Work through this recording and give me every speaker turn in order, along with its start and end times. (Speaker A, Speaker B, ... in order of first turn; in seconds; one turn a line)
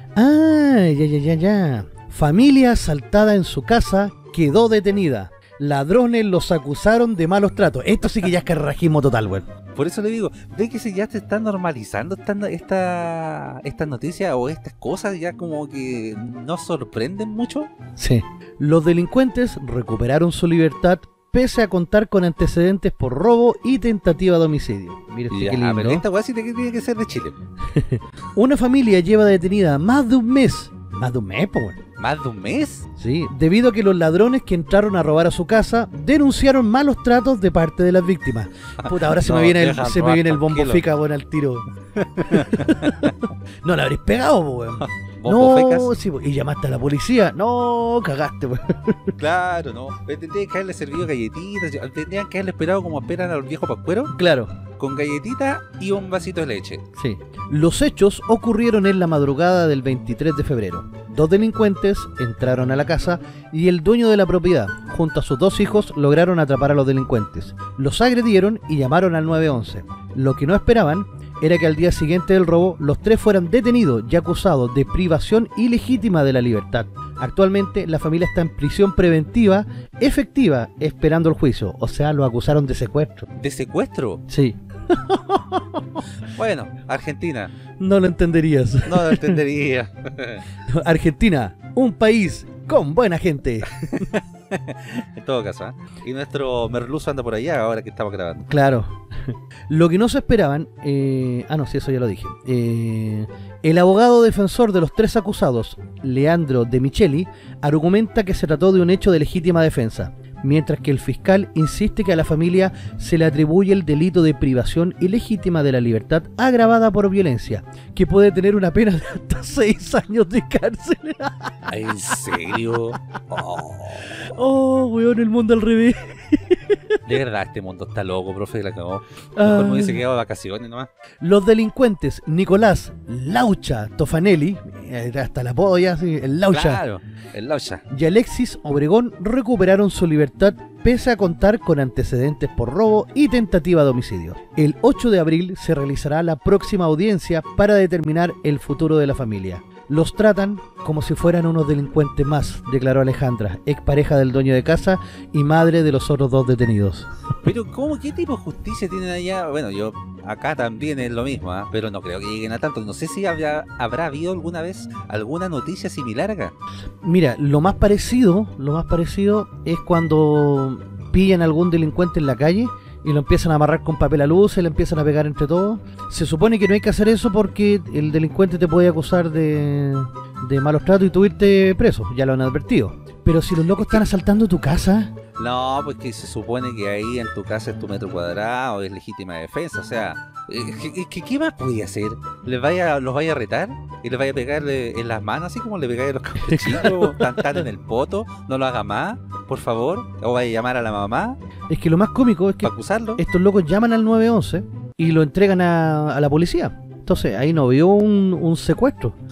Speaker A: 0.2-9.5
Speaker B: 9.8-17.7
Speaker A: 18.0-26.0
Speaker B: 25.3-27.4
Speaker A: 27.7-31.8
Speaker B: 32.0-32.9
Speaker A: 33.0-41.7
Speaker B: 38.9-40.9
Speaker B: 42.0-43.1
Speaker A: 42.3-49.2
Speaker B: 44.8-45.9
Speaker B: 49.2-54.1
Speaker A: 54.1-54.5
Speaker B: 54.8-56.8
Speaker A: 57.0-83.3
Speaker B: 83.4-84.2
Speaker A: 84.3-86.0
Speaker B: 86.3-87.5
Speaker A: 87.8-89.4
Speaker B: 88.9-90.4
Speaker A: 90.7-93.9
Speaker B: 93.8-98.5
Speaker A: 98.5-121.5
Speaker B: 121.7-124.2
Speaker A: 122.1-122.6
Speaker A: 124.0-127.0
Speaker B: 127.1-130.9
Speaker A: 129.4-130.0
Speaker A: 131.2-136.8
Speaker B: 136.5-137.8
Speaker A: 137.9-157.1
Speaker B: 157.4-166.5
Speaker A: 167.0-185.1
Speaker B: 183.8-184.0
Speaker B: 185.4-201.4
Speaker A: 196.4-197.6
Speaker A: 201.7-209.2
Speaker B: 202.6-203.2